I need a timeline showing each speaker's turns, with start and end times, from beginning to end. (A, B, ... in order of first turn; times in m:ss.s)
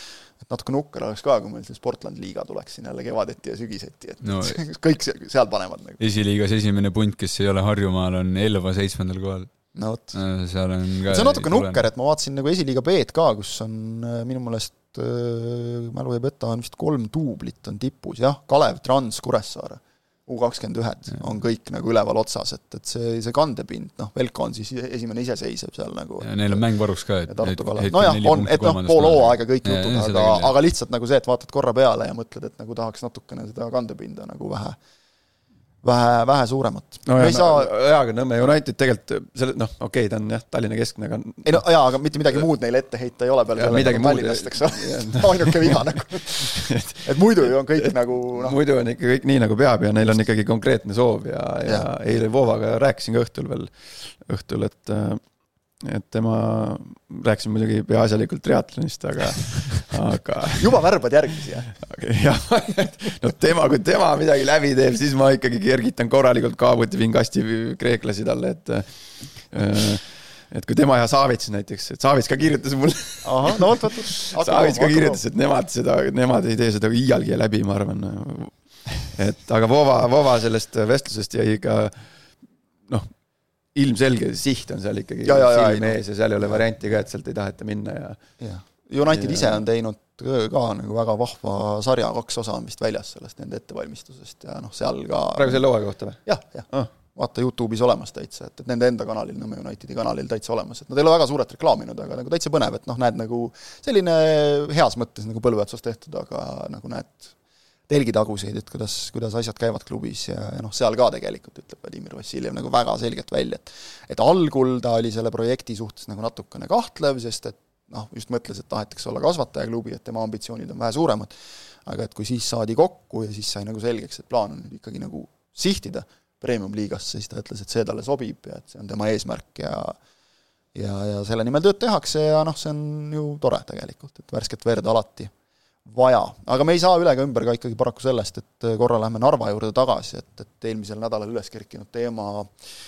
0:00.4-0:06.0 A
0:04.2-0:04.6 B
0:06.0-0:09.5 B
0:09.7-0:10.2 A
0:10.1-0:11.8 B
0:11.1-0:26.6 A
0:26.2-0:30.5 B
0:27.3-0:34.8 A
0:35.8-0:37.7 A
0:37.0-0:41.6 C
0:41.4-0:48.6 A
0:43.5-0:47.1 C
0:47.8-0:55.2 C
0:55.8-1:00.8 C
1:00.6-1:01.7 A
1:01.8-1:22.1 C
1:13.2-1:15.2 A
1:23.7-1:28.2 C
1:25.2-1:26.0 A
1:28.4-1:35.6 A
1:29.1-1:29.6 C
1:35.3-1:36.9 C
1:36.2-1:47.3 A
1:47.9-2:01.3 A
2:01.8-2:10.0 A
2:10.7-2:15.3 A
2:15.8-2:22.5 A